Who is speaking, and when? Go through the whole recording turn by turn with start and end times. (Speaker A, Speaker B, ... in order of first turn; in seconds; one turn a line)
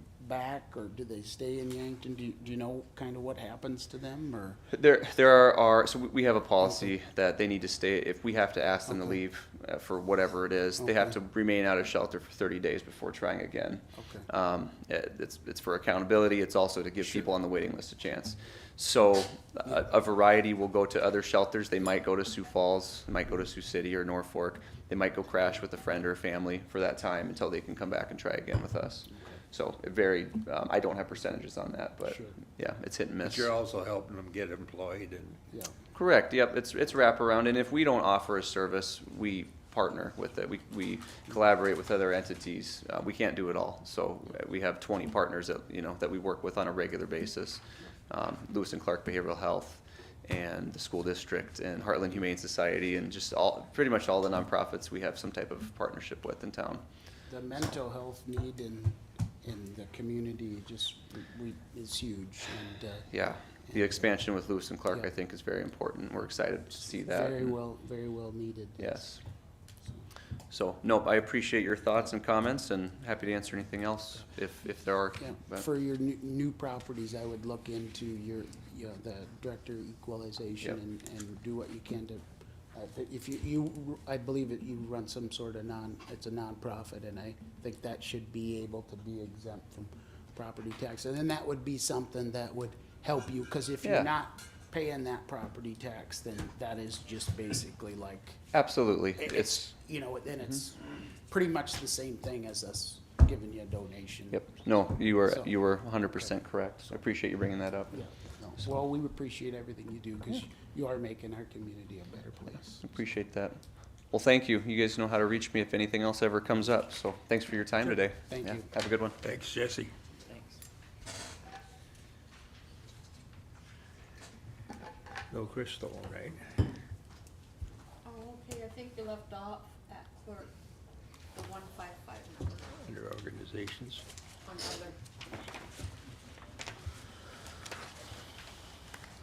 Speaker A: 0.2-4.6
Speaker B: 4.7-33.5
Speaker A: 6.6-6.9
Speaker A: 8.9-9.2
Speaker A: 10.8-11.2
Speaker A: 14.0-14.3
Speaker A: 29.1-29.4
Speaker A: 32.0-32.4
Speaker C: 33.2-35.4
Speaker A: 35.5-35.8
Speaker B: 35.9-56.8
Speaker A: 57.3-63.1
Speaker B: 63.1-67.5
Speaker A: 63.6-64.2
Speaker A: 66.8-69.1
Speaker B: 68.8-69.2
Speaker B: 70.5-75.7
Speaker A: 75.2-98.4
Speaker B: 93.8-94.1
Speaker B: 98.5-99.7
Speaker A: 99.2-104.6
Speaker B: 104.3-108.0
Speaker A: 105.2-107.0
Speaker A: 107.9-112.9
Speaker B: 112.8-113.6
Speaker B: 114.1-119.2
Speaker A: 117.8-118.7
Speaker C: 119.2-119.9
Speaker C: 125.3-126.5
Speaker D: 128.0-130.5
Speaker D: 131.3-132.8
Speaker C: 132.8-134.0
Speaker D: 134.4-135.0